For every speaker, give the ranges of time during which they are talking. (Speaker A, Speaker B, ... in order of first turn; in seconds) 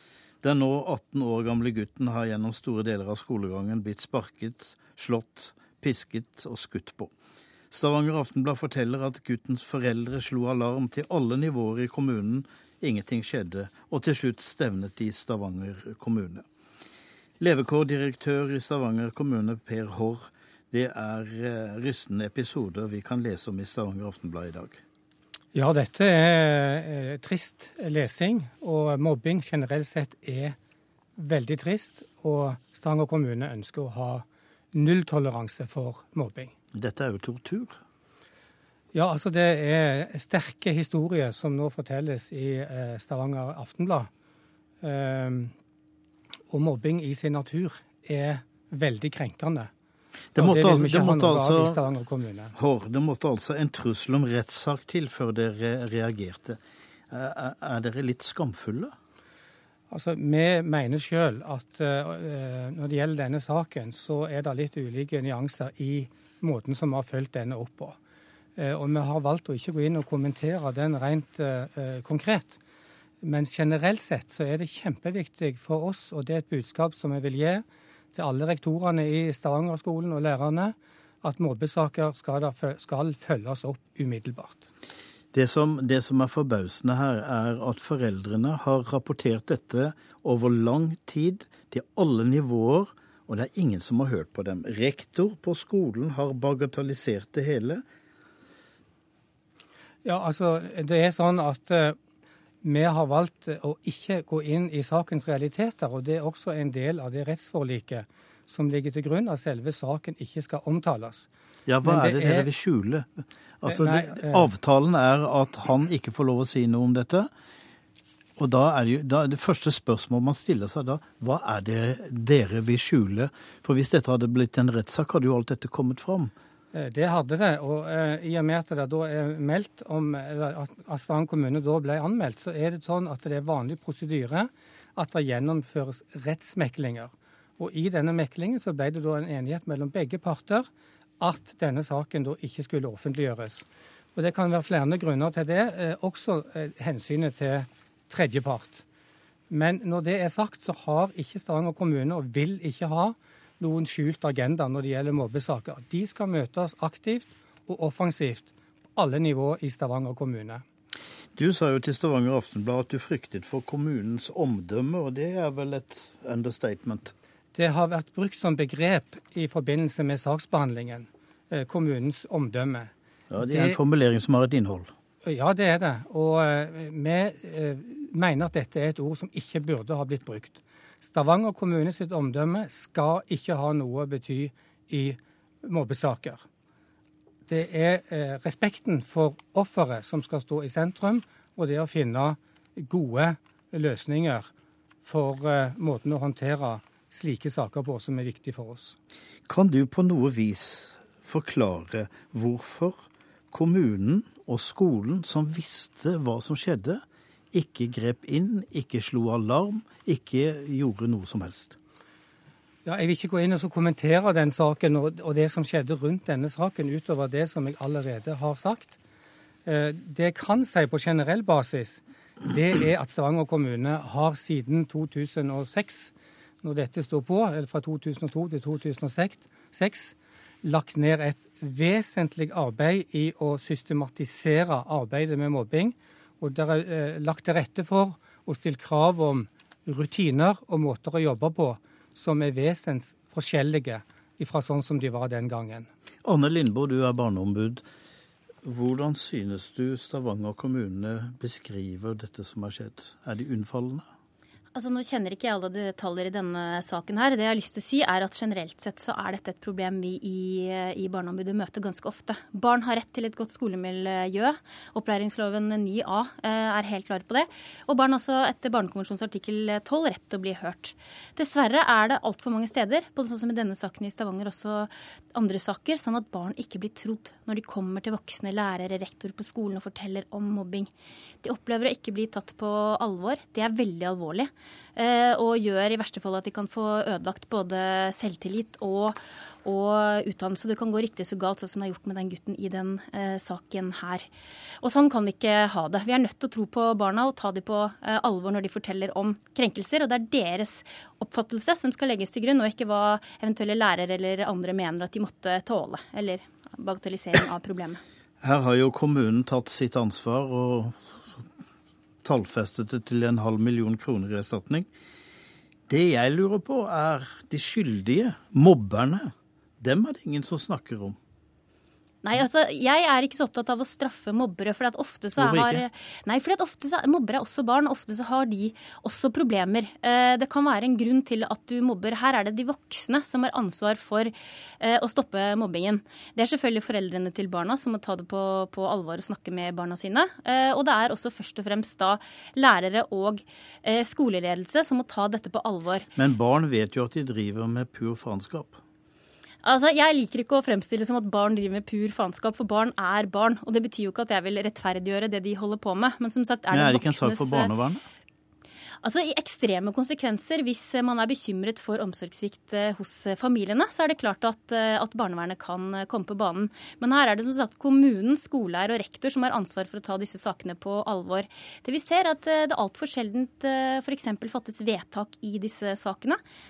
Speaker A: 0.4-7.1, 7.7-16.4, 17.4-24.8, 36.7-37.8, 50.3-51.8, 52.5-56.6, 57.1-58.9, 85.3-97.8, 111.7-117.3, 118.4-126.3, 161.3-167.1, 173.3-174.9, 199.5-211.8, 246.2-247.8, 248.6-254.1, 308.4-311.4, 312.2-314.9, 315.9-321.2, 325.4-325.8, 346.1-348.8, 356.7-358.0
Speaker B: 25.5-30.6, 31.2-36.5, 38.9-44.1, 44.8-45.5, 46.5-49.7, 50.4-52.5, 59.9-68.0, 68.6-72.6, 73.2-84.6, 100.0-102.0, 102.6-111.3, 111.8-112.5, 113.7-114.5, 126.7-140.7, 141.2-148.8, 149.5-160.6, 167.5-173.8, 175.2-186.4, 187.5-194.5, 195.0-198.9, 212.8-218.9, 219.7-226.1, 226.6-245.9
Speaker C: 254.7-280.9, 281.4-294.3, 294.8-308.0, 322.2-346.1, 349.6-357.7, 359.0-376.4